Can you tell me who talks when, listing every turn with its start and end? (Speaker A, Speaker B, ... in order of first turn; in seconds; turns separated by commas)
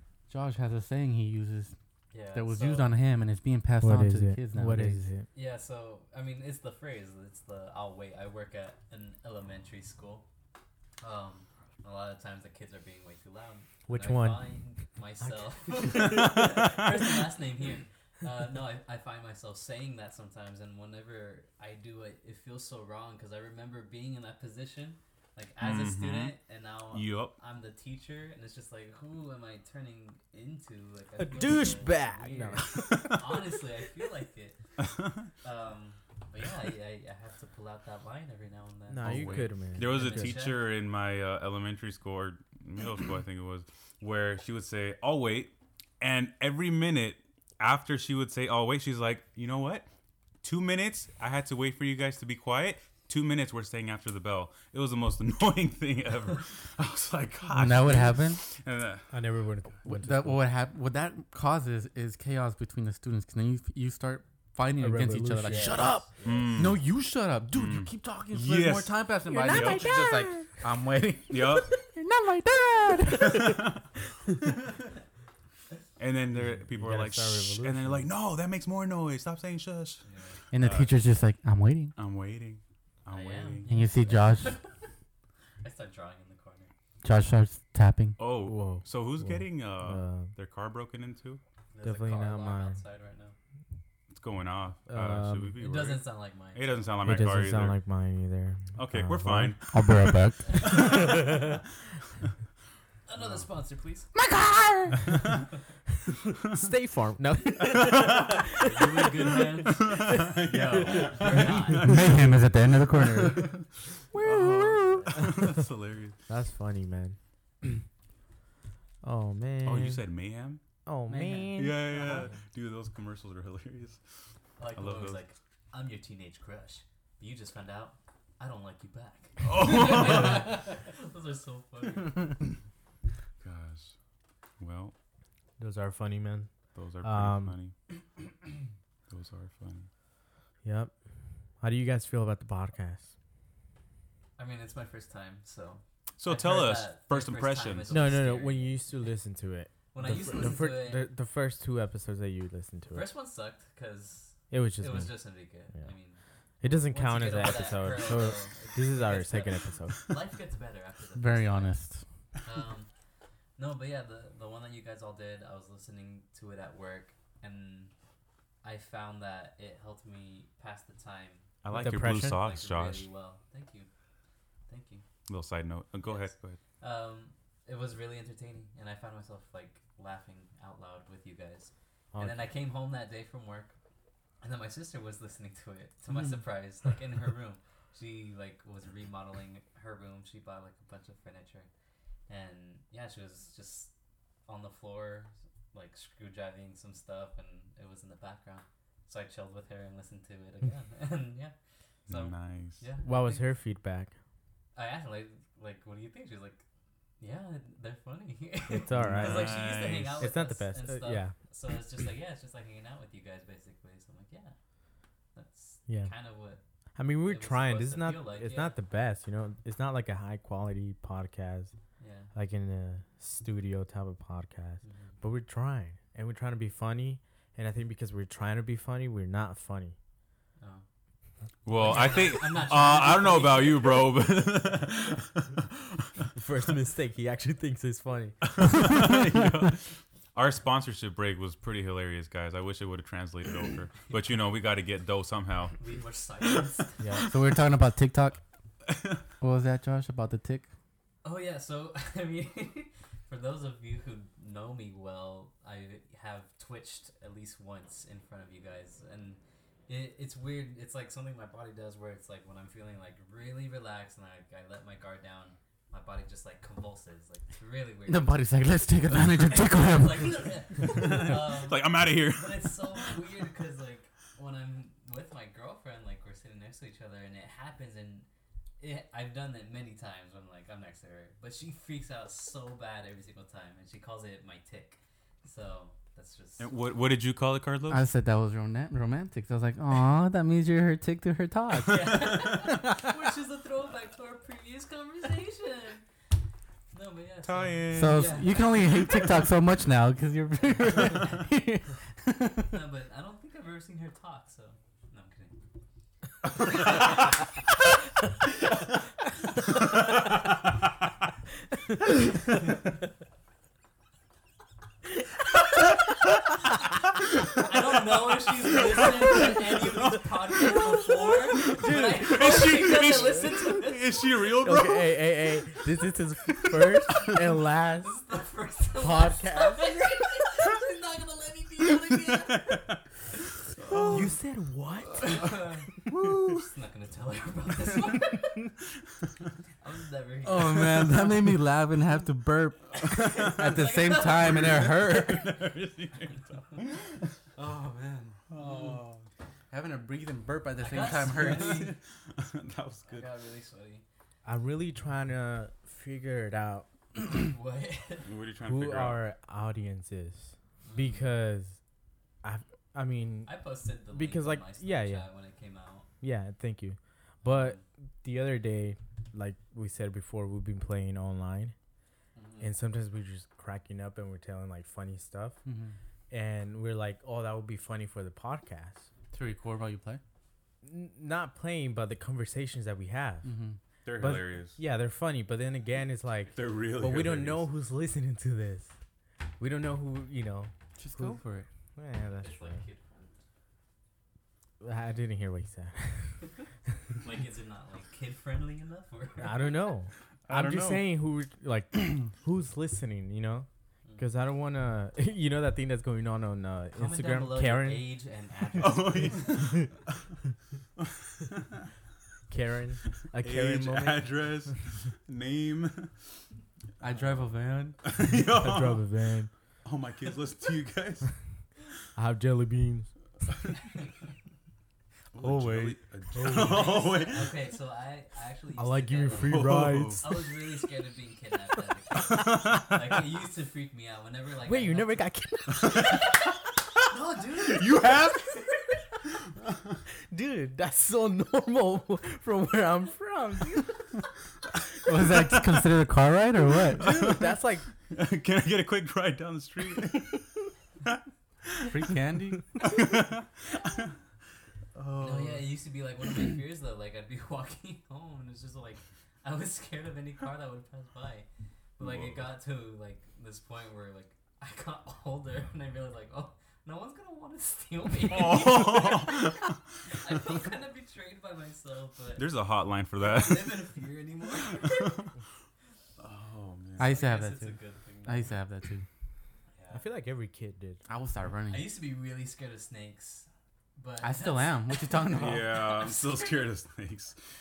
Speaker A: 0.3-1.7, Speaker B: 2.1-2.9, Speaker A: 2.3-5.0, Speaker C: 3.8-5.3, Speaker B: 5.3-10.2, Speaker B: 11.0-34.6, Speaker C: 13.9-14.5, Speaker C: 15.2-16.6, Speaker D: 16.2-16.9, Speaker D: 25.6-26.4, Speaker D: 26.9-27.3, Speaker C: 31.2-32.7, Speaker D: 32.7-33.4, Speaker D: 34.8-35.3, Speaker B: 35.4-40.7, Speaker C: 38.9-40.4, Speaker D: 39.0-49.9, Speaker D: 50.4-59.1, Speaker A: 57.5-58.4, Speaker C: 59.1-60.4, Speaker A: 59.9-73.6, Speaker C: 64.8-66.0, Speaker B: 65.4-66.5, Speaker D: 66.2-66.8, Speaker D: 67.5-69.9, Speaker C: 69.3-70.5, Speaker D: 71.3-71.7, Speaker C: 73.1-73.5, Speaker D: 73.1-73.8, Speaker D: 76.0-80.9, Speaker C: 76.3-78.1, Speaker B: 80.0-80.4, Speaker A: 80.5-81.9, Speaker D: 82.0-83.7, Speaker B: 83.1-84.7, Speaker A: 83.7-84.6, Speaker B: 85.6-86.7, Speaker A: 87.0-88.2, Speaker D: 88.2-91.4, Speaker C: 88.4-90.3, Speaker B: 91.7-93.3, Speaker C: 91.8-92.8, Speaker D: 94.1-97.8, Speaker C: 94.9-95.5, Speaker B: 95.6-96.9, Speaker C: 97.0-99.6, Speaker D: 98.7-101.3, Speaker A: 99.7-100.7, Speaker B: 100.4-101.5, Speaker C: 100.7-101.6, Speaker B: 103.1-104.1, Speaker A: 104.1-105.2, Speaker C: 106.4-111.5, Speaker D: 107.7-108.4, Speaker B: 108.5-111.9, Speaker D: 109.7-112.4, Speaker A: 111.8-113.5, Speaker D: 113.1-113.6, Speaker C: 114.1-115.5, Speaker D: 114.2-116.2, Speaker B: 114.8-115.4, Speaker C: 116.3-117.8, Speaker C: 119.0-120.0, Speaker D: 119.6-120.6, Speaker C: 120.8-121.9, Speaker B: 121.1-122.4, Speaker D: 121.5-124.0, Speaker B: 124.6-132.5, Speaker D: 124.7-125.2, Speaker D: 129.4-130.5, Speaker D: 133.4-133.9, Speaker D: 134.6-134.9, Speaker C: 135.6-137.6, Speaker D: 136.7-137.7, Speaker D: 139.1-139.9, Speaker C: 140.6-140.9, Speaker C: 141.6-143.1, Speaker B: 144.4-148.8, Speaker D: 146.2-148.0, Speaker C: 147.9-153.1, Speaker B: 149.9-151.1, Speaker B: 152.9-161.7, Speaker C: 154.5-155.2, Speaker C: 156.6-160.1, Speaker A: 161.2-162.0, Speaker B: 162.4-162.9, Speaker B: 163.6-167.9, Speaker B: 168.6-173.9, Speaker D: 171.6-173.1, Speaker C: 171.7-172.4, Speaker B: 174.7-175.0, Speaker D: 175.3-176.6, Speaker B: 176.0-183.7, Speaker C: 182.1-182.4, Speaker B: 184.4-191.7, Speaker B: 192.3-193.9, Speaker B: 194.4-201.5, Speaker B: 202.1-203.5, Speaker D: 202.1-202.8, Speaker C: 203.0-204.1, Speaker B: 204.7-206.6, Speaker B: 207.2-214.5, Speaker C: 208.7-209.6, Speaker D: 208.9-210.2, Speaker C: 210.2-211.3, Speaker B: 215.3-216.6, Speaker C: 215.9-216.1, Speaker C: 216.9-221.7, Speaker B: 217.2-218.8, Speaker B: 222.0-222.3, Speaker C: 222.3-229.9, Speaker B: 224.8-225.1, Speaker B: 230.6-230.8, Speaker D: 231.6-236.2, Speaker B: 231.7-234.3, Speaker C: 236.3-238.9, Speaker D: 238.4-245.8, Speaker B: 245.8-247.0, Speaker A: 247.2-248.4, Speaker D: 248.9-249.2, Speaker A: 249.4-250.7, Speaker B: 251.2-268.4, Speaker A: 268.1-270.5, Speaker B: 269.1-278.2, Speaker D: 270.8-273.1, Speaker B: 278.8-286.7, Speaker D: 286.6-288.0, Speaker A: 287.9-293.1, Speaker B: 291.7-296.0, Speaker B: 296.9-299.5, Speaker D: 297.4-298.6, Speaker A: 297.9-302.8, Speaker B: 300.8-301.4, Speaker B: 302.7-305.5, Speaker D: 306.6-306.9, Speaker B: 317.4-324.2, Speaker C: 321.6-323.1, Speaker D: 322.1-325.2, Speaker C: 324.6-328.1, Speaker B: 327.1-327.4, Speaker B: 327.9-333.0, Speaker C: 329.0-330.0, Speaker D: 332.1-333.0, Speaker D: 333.7-334.4, Speaker B: 333.9-334.3, Speaker C: 334.1-335.5, Speaker B: 335.1-335.9, Speaker D: 336.1-336.7, Speaker B: 336.5-338.7, Speaker B: 339.8-341.4, Speaker A: 340.4-345.5, Speaker B: 343.0-345.1, Speaker D: 343.1-343.5, Speaker D: 344.2-347.4, Speaker B: 346.2-346.9, Speaker A: 347.6-348.4, Speaker B: 347.6-349.0, Speaker D: 348.5-349.2, Speaker A: 349.7-351.9, Speaker B: 350.8-351.9, Speaker D: 351.3-353.3, Speaker B: 353.1-354.0, Speaker C: 354.4-356.9, Speaker B: 357.4-358.3, Speaker D: 358.2-359.2, Speaker C: 358.6-361.8, Speaker B: 360.8-361.3, Speaker C: 362.4-363.5, Speaker B: 363.4-366.1, Speaker C: 364.1-365.2, Speaker C: 366.2-371.7, Speaker B: 367.4-367.8, Speaker B: 372.4-372.7, Speaker C: 372.6-375.6, Speaker A: 375.6-375.9, Speaker C: 376.3-379.1, Speaker A: 379.3-380.2, Speaker C: 380.8-383.5, Speaker A: 383.4-383.8, Speaker D: 384.0-384.8, Speaker C: 384.1-388.9, Speaker D: 386.5-387.7, Speaker C: 389.6-391.4, Speaker A: 390.9-391.7, Speaker C: 391.9-392.8, Speaker B: 392.3-393.3, Speaker C: 394.8-396.4, Speaker B: 397.2-399.8, Speaker C: 399.4-408.1, Speaker D: 400.4-401.1, Speaker B: 406.9-409.5, Speaker D: 408.8-410.2, Speaker C: 408.9-409.9, Speaker D: 411.0-411.8, Speaker C: 412.5-414.3, Speaker D: 413.4-416.3, Speaker A: 417.0-418.0, Speaker B: 417.1-417.4, Speaker D: 418.0-419.0, Speaker C: 418.3-419.5, Speaker D: 419.8-421.3, Speaker C: 422.1-423.1, Speaker B: 423.6-424.3, Speaker D: 425.3-427.6, Speaker C: 425.4-427.1, Speaker B: 426.4-435.2, Speaker C: 428.8-430.3, Speaker D: 429.4-430.3, Speaker D: 432.3-433.0, Speaker C: 434.6-436.1, Speaker B: 435.9-436.4, Speaker B: 437.0-439.0, Speaker D: 437.6-438.6, Speaker D: 439.5-440.0, Speaker C: 440.3-444.1, Speaker A: 445.0-447.2, Speaker C: 446.9-447.9, Speaker D: 447.0-447.4, Speaker D: 448.0-450.4, Speaker D: 451.0-451.9, Speaker A: 451.9-452.6, Speaker D: 452.8-454.1, Speaker D: 454.9-455.5, Speaker B: 455.2-461.4, Speaker B: 462.0-472.5, Speaker D: 462.0-462.5, Speaker D: 468.2-470.5, Speaker D: 472.3-473.9, Speaker B: 473.2-475.3, Speaker D: 474.7-475.3, Speaker D: 476.2-477.1, Speaker B: 477.0-478.5, Speaker A: 477.0-479.1, Speaker B: 479.7-480.0, Speaker C: 479.9-481.0, Speaker A: 481.1-481.9, Speaker B: 481.7-486.8, Speaker A: 484.2-485.7, Speaker D: 485.3-487.4